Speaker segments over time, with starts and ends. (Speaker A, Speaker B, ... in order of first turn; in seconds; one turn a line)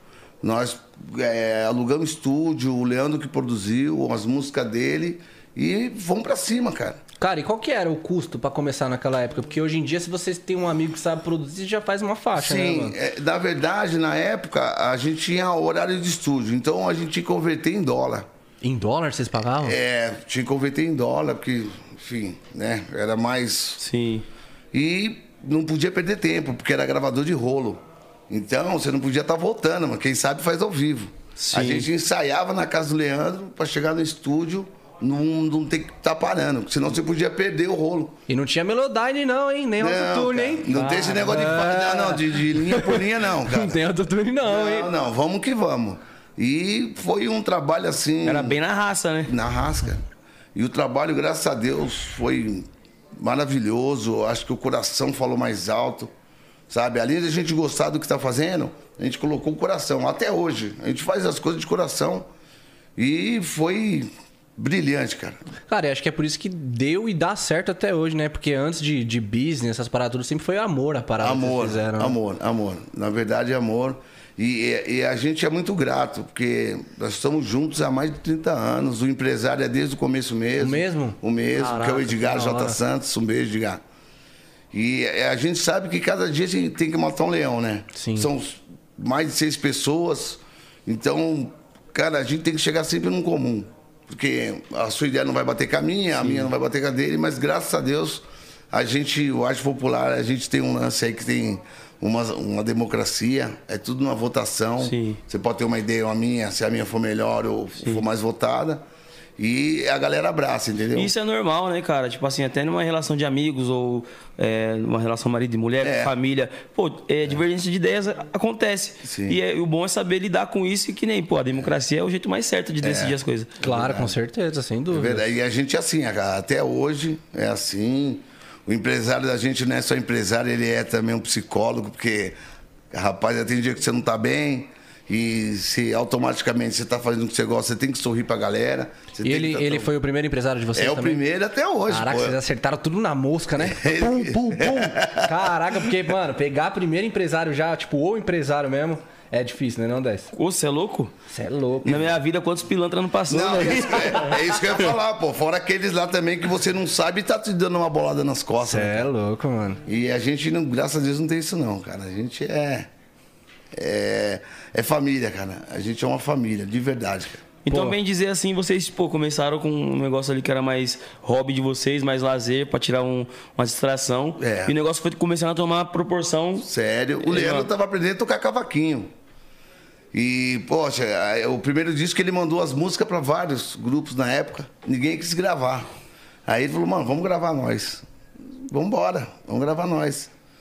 Speaker A: 0.4-7.0
Speaker B: 7.2-12.9
Speaker A: 12.3-18.3
Speaker B: 18.6-19.8
Speaker A: 19.6-23.8
Speaker C: 23.8-24.3
Speaker A: 24.7-38.2
Speaker C: 31.4-31.9
Speaker B: 38.3-44.9
Speaker A: 39.8-43.8
Speaker A: 44.5-48.6
Speaker C: 48.2-49.3
Speaker A: 49.3-50.0
Speaker A: 50.5-56.1
Speaker A: 56.7-62.2
Speaker A: 63.0-65.4
Speaker B: 65.7-72.2
Speaker A: 71.2-83.8
Speaker B: 80.6-82.8
Speaker A: 84.7-108.8
Speaker B: 87.9-88.3
Speaker C: 96.2-96.5
Speaker C: 104.8-105.2
Speaker A: 109.4-111.1
Speaker C: 110.9-123.5
Speaker A: 115.8-116.1
Speaker A: 119.0-119.4
Speaker A: 122.8-124.1
Speaker B: 123.6-125.2
Speaker A: 124.9-132.3
Speaker A: 132.9-139.9
Speaker B: 139.2-141.2
Speaker A: 140.7-142.4
Speaker B: 141.9-150.3
Speaker A: 143.6-146.0
Speaker C: 150.3-151.1
Speaker B: 151.3-152.1
Speaker C: 151.8-154.5
Speaker A: 153.3-159.1
Speaker B: 158.6-159.8
Speaker A: 159.8-162.9
Speaker A: 163.7-167.9
Speaker C: 167.7-176.7
Speaker A: 174.4-174.7
Speaker A: 176.6-179.1
Speaker C: 177.2-177.7
Speaker A: 180.1-185.9
Speaker A: 186.5-188.0
Speaker A: 188.5-190.3